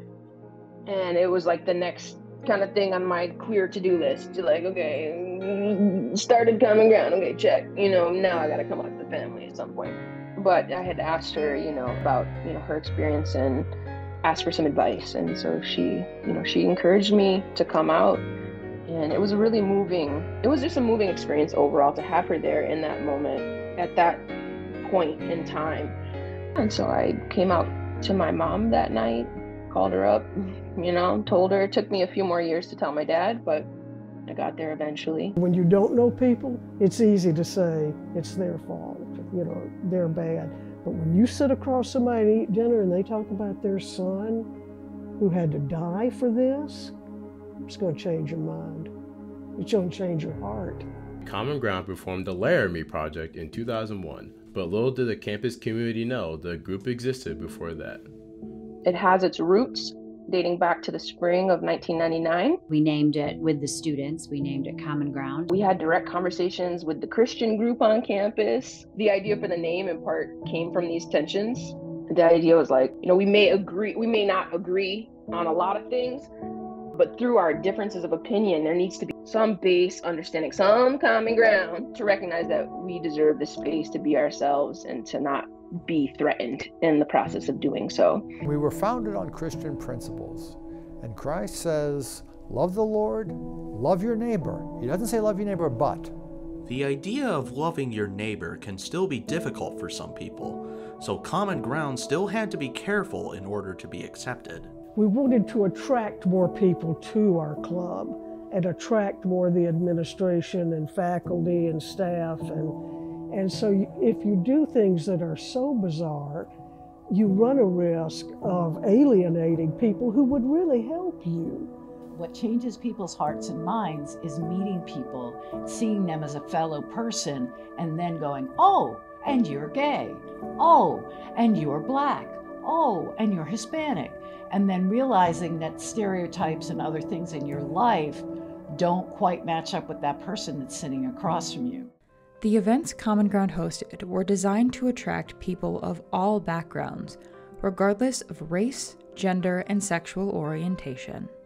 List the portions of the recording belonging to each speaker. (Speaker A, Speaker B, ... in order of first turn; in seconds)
Speaker A: 0.9-13.7, 14.2-18.2, 18.9-24.2, 24.9-25.9, 26.6-33.7, 34.3-35.4, 58.9-62.6, 65.5-76.3, 76.9-88.3
Speaker B: 35.4-44.5, 45.2-47.0, 47.6-48.9, 49.6-50.9, 105.0-112.8, 113.3-116.5, 117.1-121.7
Speaker C: 51.2-58.1
Speaker D: 62.7-65.5
Speaker E: 88.4-96.1
Speaker F: 96.7-104.7
Speaker G: 122.1-141.9
Speaker H: 142.4-151.3